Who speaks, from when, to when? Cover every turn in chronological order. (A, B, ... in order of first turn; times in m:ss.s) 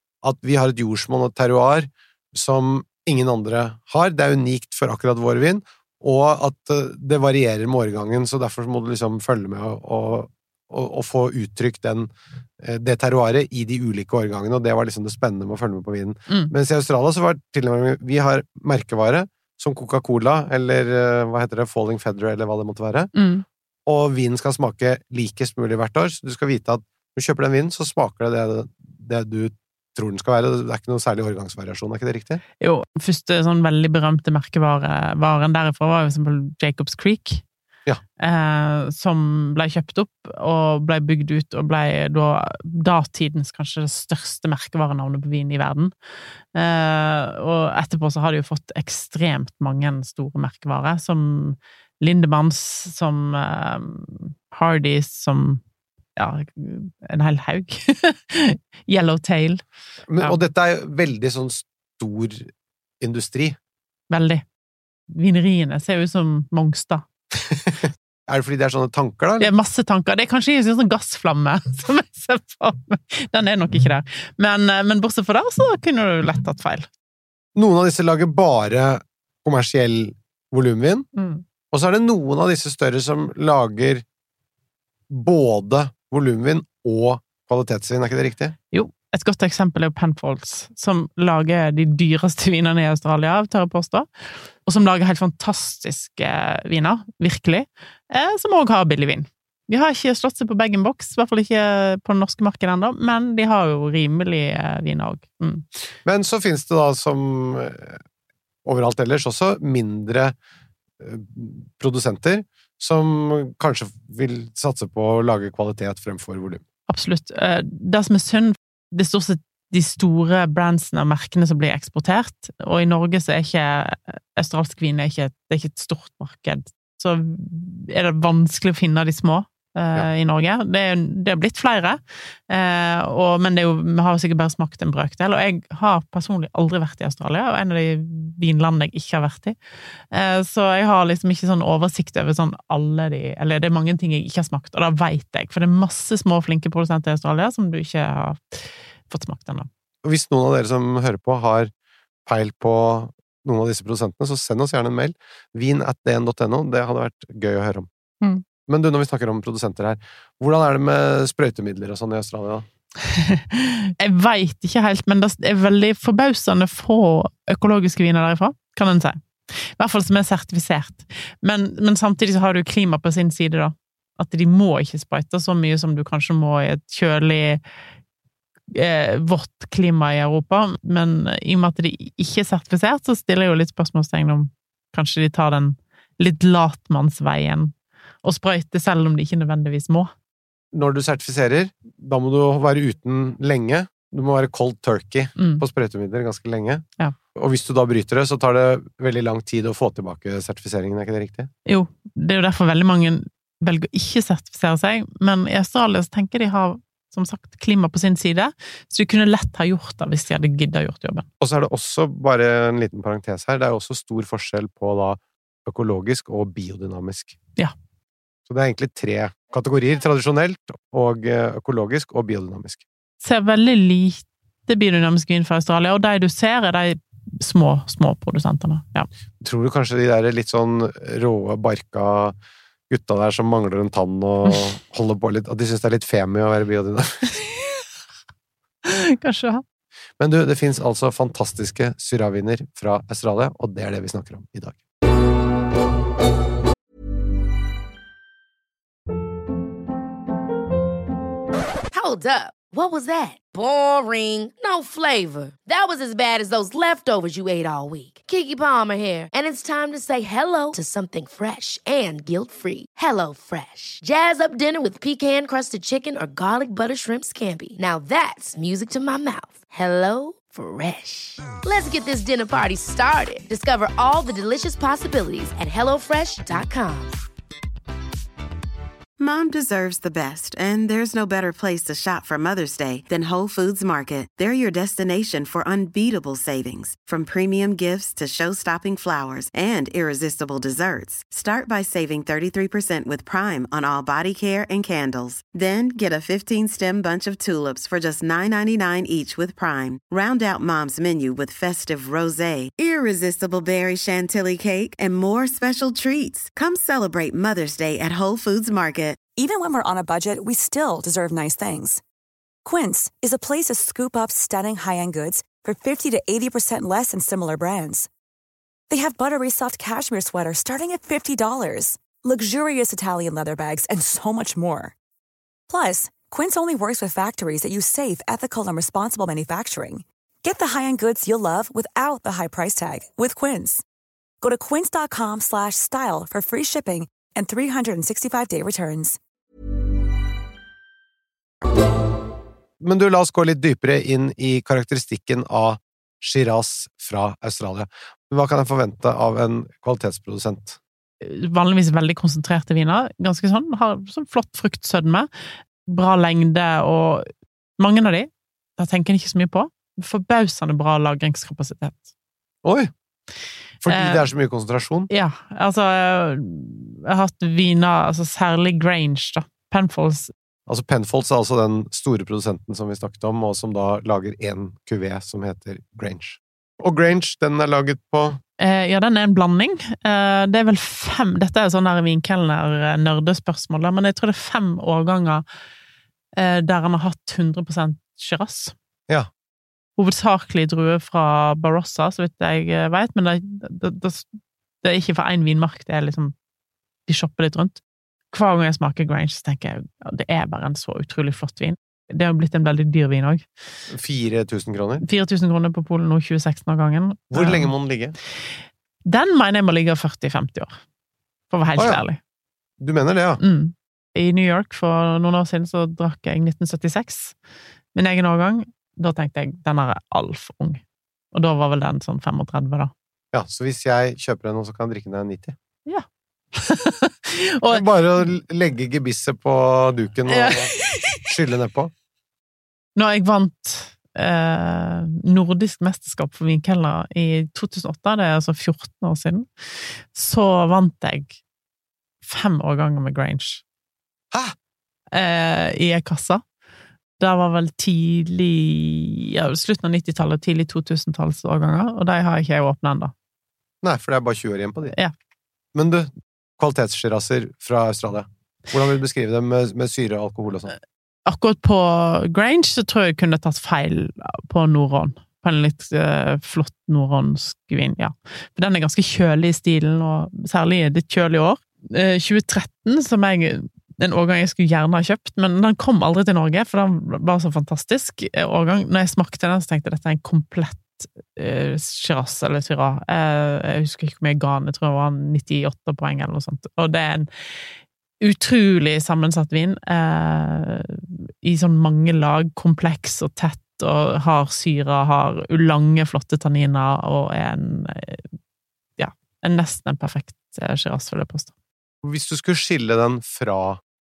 0:00.2-0:23.1 A
0:16.3-0:16.5 B
0:23.1-0:23.4 B
0:23.9-0:32.4 A
0:32.6-0:37.4 B
0:38.2-0:45.9 B
0:46.5-0:55.6 B
0:56.2-0:59.6 B
1:00.1-1:03.6 A
1:04.1-1:04.4 B
1:05.1-1:07.1 B
1:07.5-1:09.5 A
1:09.4-1:16.9 B
1:17.6-1:21.1 A
1:21.2-1:21.4 B
1:21.7-1:24.0 A
1:25.1-1:28.6 A
1:28.7-1:34.1 B
1:34.7-1:45.6 B
1:46.0-1:48.0 A
1:48.6-1:50.4 A
1:51.0-1:56.6 A
1:56.9-2:19.6 B
2:20.1-2:29.7 B
2:30.0-2:31.7 A
2:32.3-2:37.9 A
2:38.7-2:42.7 A
2:43.1-2:57.6 B
2:58.7-3:10.1 B
3:10.7-3:21.5 A
3:15.4-3:15.6 B
3:21.7-3:31.3 B
3:31.4-3:37.4 A
3:38.5-3:42.8 A
3:43.2-3:49.1 B
3:49.4-3:52.4 A
3:52.9-3:57.3 A
3:58.8-3:59.6 B
4:00.2-4:04.8 A
4:11.9-4:37.2 C
4:39.2-5:09.2 D
5:09.4-5:12.0 E
5:12.6-5:18.1 E
5:18.9-5:25.0 E
5:25.7-5:33.8 E
5:34.4-5:39.2 E
5:42.8-5:50.8 A
5:51.2-5:55.3 B
5:55.8-6:02.1 B
6:02.6-6:02.9 A
6:03.8-6:05.1 A
6:03.9-6:04.3 B
6:05.1-6:10.3 B
6:10.7-6:18.4 A
6:18.6-6:25.4 B
6:26.4-6:28.8 B
6:30.0-6:34.3 B
6:34.8-6:36.3 B
6:37.1-6:37.8 B
6:38.3-6:43.5 B
6:43.9-6:45.0 A
6:45.0-6:47.7 B
6:47.3-6:48.2 A
6:49.0-6:50.8 B
6:51.5-6:52.2 B
6:51.8-6:52.0 A
6:52.8-6:53.4 A
6:53.4-6:57.4 B
6:57.9-7:00.8 B
7:01.3-7:02.9 B
7:03.3-7:05.6 A
7:05.9-7:07.8 B
7:07.7-7:11.9 A
7:10.3-7:11.2 B
7:13.0-7:21.4 B
7:22.2-7:23.6 B
7:25.1-7:26.4 B
7:27.2-7:33.1 B
7:33.8-7:35.0 A
7:35.7-7:40.8 A
7:41.3-8:07.3 B
8:08.2-8:18.3 B
8:19.0-8:21.5 B
8:22.0-8:23.8 A